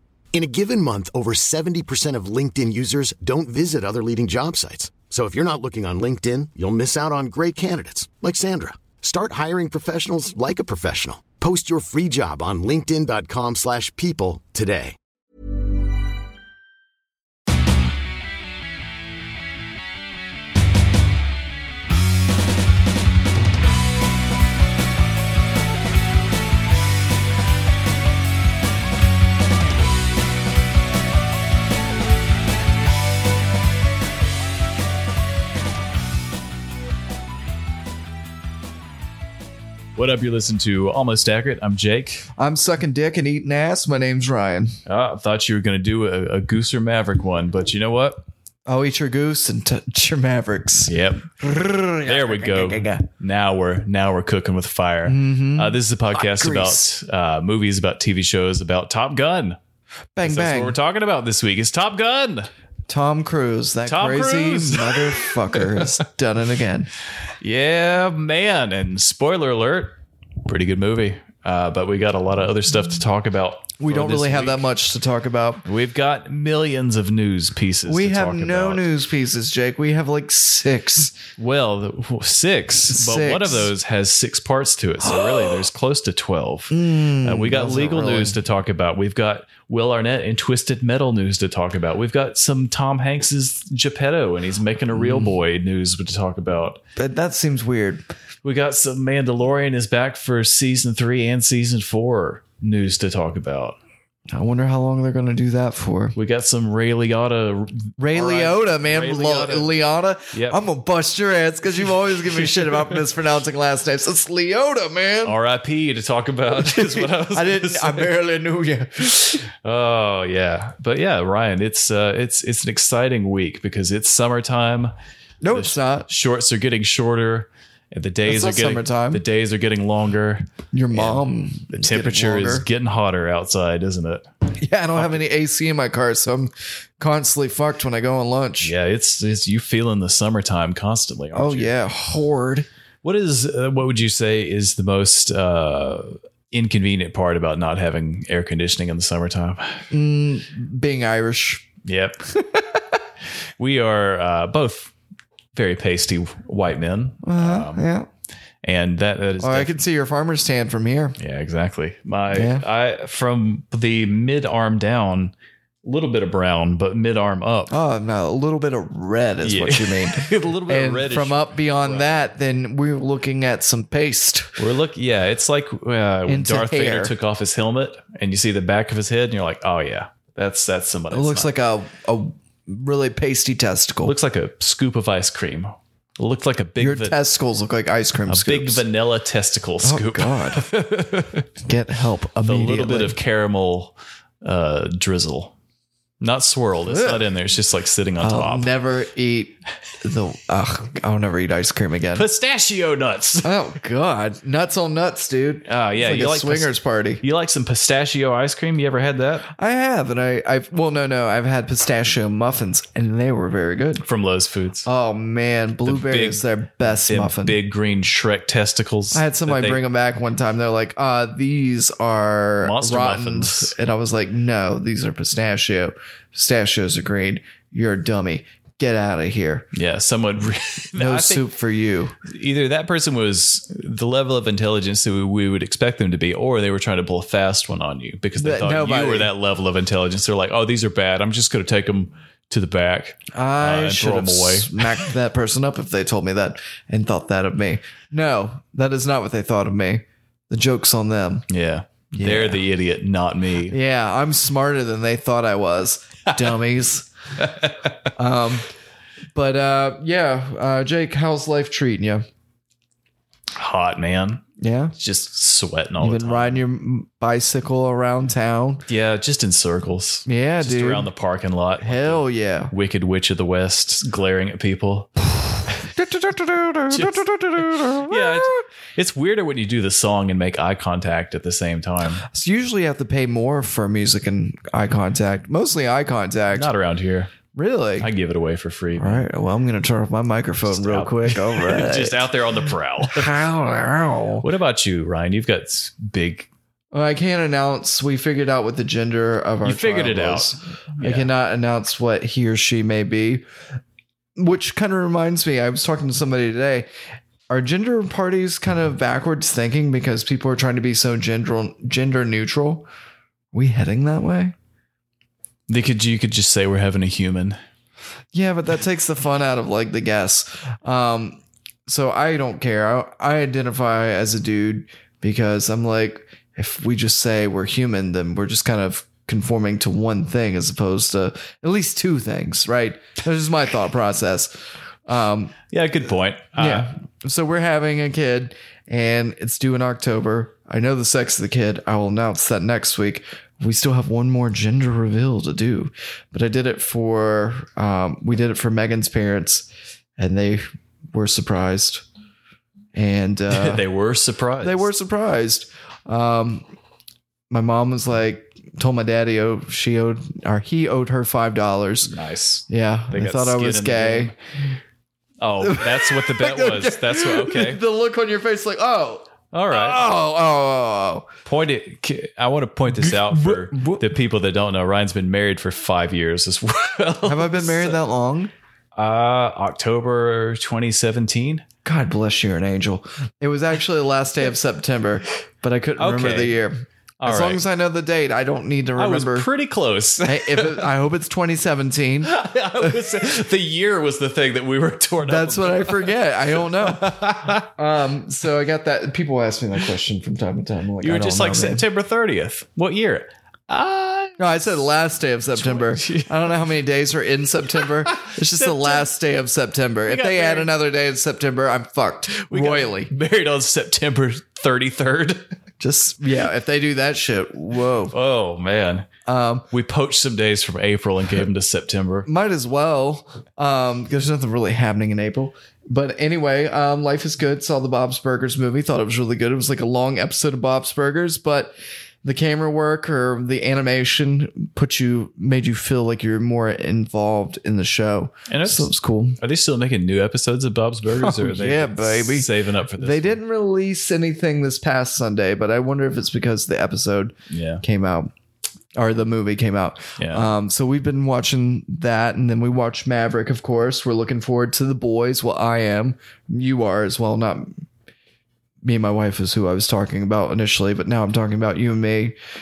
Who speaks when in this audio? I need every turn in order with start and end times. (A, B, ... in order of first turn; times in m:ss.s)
0:00.3-0:15.0 A
0:40.0-0:42.3 B
0:42.4-0:44.8 C
0:44.8-0:48.2 B
0:48.7-0:53.1 C
0:50.9-0:51.4 B
0:52.0-0:59.6 B
0:55.0-0:56.8 C
1:00.1-1:00.8 C
1:00.2-1:02.5 B
1:02.9-1:06.9 C
1:03.8-1:05.8 B
1:07.4-1:14.7 B
1:13.8-1:15.6 C
1:15.6-1:18.9 B
1:17.9-1:21.2 C
1:21.4-1:36.8 B
1:22.9-1:23.7 C
1:25.0-1:25.6 C
1:26.7-1:28.4 C
1:34.9-1:35.3 C
1:37.0-1:38.1 C
1:38.4-1:43.8 B
1:44.3-1:46.2 C
1:46.1-1:49.7 B
1:48.0-1:55.4 C
1:50.3-1:50.6 B
1:52.1-1:53.0 B
1:55.2-1:58.1 B
1:56.6-1:59.4 C
1:59.4-2:04.9 B
2:05.4-2:06.1 C
2:05.5-2:14.3 B
2:08.2-2:09.2 C
2:10.7-2:12.6 C
2:14.6-2:18.8 C
2:14.9-2:15.2 B
2:18.6-2:21.7 B
2:21.3-2:22.7 C
2:23.0-2:29.9 B
2:29.9-2:31.7 C
2:31.8-2:32.2 B
2:32.3-2:32.9 C
2:33.6-2:34.9 B
2:35.5-2:37.9 B
2:37.2-2:38.1 C
2:38.6-2:39.8 B
2:39.4-2:41.2 C
2:41.2-2:47.8 B
2:42.3-2:42.6 C
2:47.7-2:54.6 C
2:49.4-2:52.2 B
2:54.6-3:01.5 B
2:56.2-2:57.1 C
3:01.1-3:04.1 C
3:04.0-3:07.2 B
3:06.8-3:08.8 C
3:08.3-3:11.4 B
3:09.8-3:10.6 C
3:11.6-3:13.2 C
3:12.4-3:15.5 B
3:16.2-3:18.7 B
3:16.9-3:17.2 C
3:18.2-3:22.3 C
3:22.1-3:23.6 B
3:23.4-3:27.2 C
3:25.6-3:29.5 B
3:29.5-3:34.1 C
3:34.0-3:34.9 B
3:34.8-3:37.6 C
3:35.8-3:39.8 B
3:39.1-3:49.7 C
3:42.6-3:43.7 B
3:49.7-3:51.5 B
3:50.9-3:52.1 C
3:52.2-4:05.0 B
3:58.4-3:59.3 C
4:03.3-4:11.5 C
4:11.5-4:13.8 B
4:12.1-4:12.6 C
4:13.7-4:17.1 C
4:17.4-4:17.9 B
4:18.2-4:18.7 C
4:19.3-4:22.2 C
4:23.6-4:24.4 B
4:24.6-4:24.9 C
4:25.0-4:26.6 B
4:26.0-4:28.8 C
4:28.9-4:35.7 B
4:30.3-4:31.1 C
4:31.8-4:32.7 C
4:35.9-4:38.6 C
4:36.9-4:42.2 B
4:42.2-4:46.7 C
4:46.5-4:47.3 B
4:47.5-4:48.1 C
4:48.0-4:49.2 B
4:48.9-4:54.4 C
4:50.7-4:53.3 B
4:54.4-4:56.5 B
4:56.9-5:03.5 C
4:59.6-5:01.3 B
5:04.4-5:06.9 C
5:07.5-5:12.9 C
5:13.5-5:14.6 C
5:15.7-5:17.6 B
5:18.3-5:34.5 C
5:35.1-5:35.6 C
5:35.7-5:36.9 B
5:36.6-5:52.1 C
5:52.9-5:53.8 C
5:53.5-5:54.9 B
5:54.6-5:56.7 C
5:57.5-6:02.1 C
6:02.1-6:04.4 B
6:02.7-6:04.4 C
6:05.4-6:07.8 B
6:05.6-6:11.3 C
6:09.5-6:10.0 B
6:11.4-6:18.0 B
6:12.9-6:14.1 C
6:17.2-6:18.5 C
6:19.0-6:21.6 B
6:21.8-6:26.7 C
6:26.0-6:26.6 B
6:27.2-6:27.6 B
6:27.2-6:29.5 C
6:29.0-6:30.9 B
6:30.2-6:33.2 C
6:32.2-6:37.7 B
6:35.2-6:41.9 C
6:41.0-6:44.5 B
6:44.4-6:53.1 C
6:45.5-6:46.5 B
6:47.9-6:49.0 B
6:50.1-6:50.7 B
6:52.3-6:55.5 B
6:55.8-6:58.2 C
6:58.1-6:59.1 B
6:59.2-6:59.7 C
6:59.7-7:02.3 B
7:02.2-7:19.4 C
7:18.5-7:23.4 B
7:21.2-7:28.3 C
7:27.5-7:27.8 B
7:28.9-7:37.9 C
7:30.2-7:30.5 B
7:38.8-7:42.4 C